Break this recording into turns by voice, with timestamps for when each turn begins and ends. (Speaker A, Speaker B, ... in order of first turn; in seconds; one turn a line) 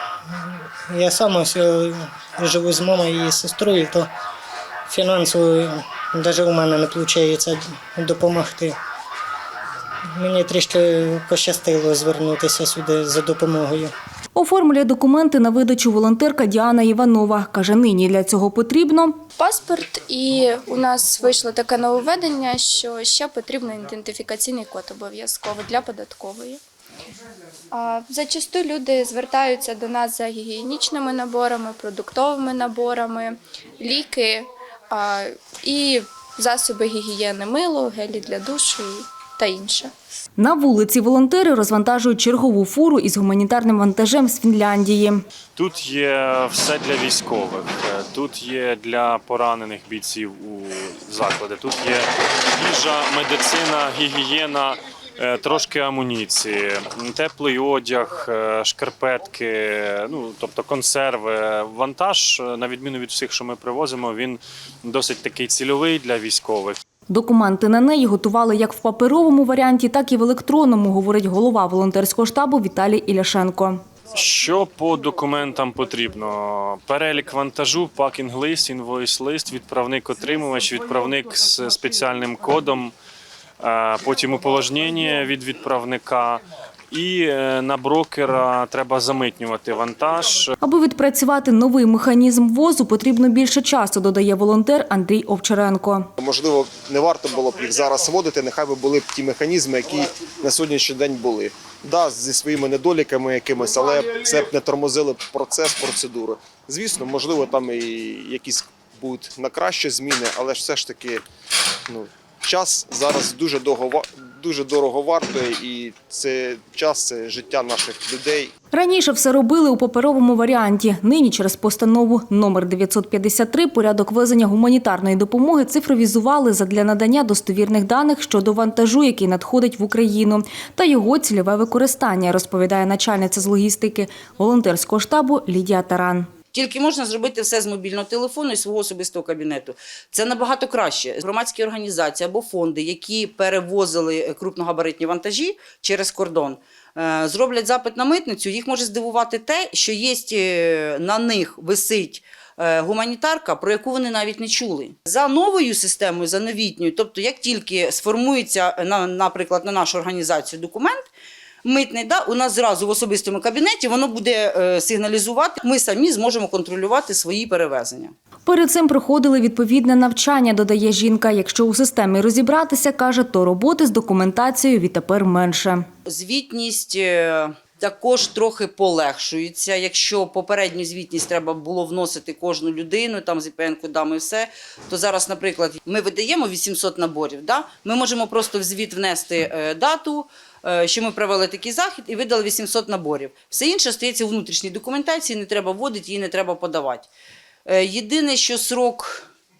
Speaker A: 0.3-4.1
Speaker A: 4.9-8.8
Speaker A: 10.1-13.9
Speaker B: 14.4-19.2
Speaker C: 19.4-26.6
Speaker C: 27.7-39.9
Speaker B: 40.4-45.2
Speaker D: 45.5-66.8
Speaker B: 67.1-73.8
Speaker D: 74.1-82.9
Speaker D: 83.6-90.5
Speaker B: 90.6-96.1
Speaker E: 96.2-111.2
Speaker E: 111.9-118.5
Speaker B: 118.7-136.3
Speaker F: 136.5-161.1
Speaker F: 161.6-168.2
Speaker B: 168.5-175.8
Speaker F: 176.1-197.1
Speaker F: 197.7-199.3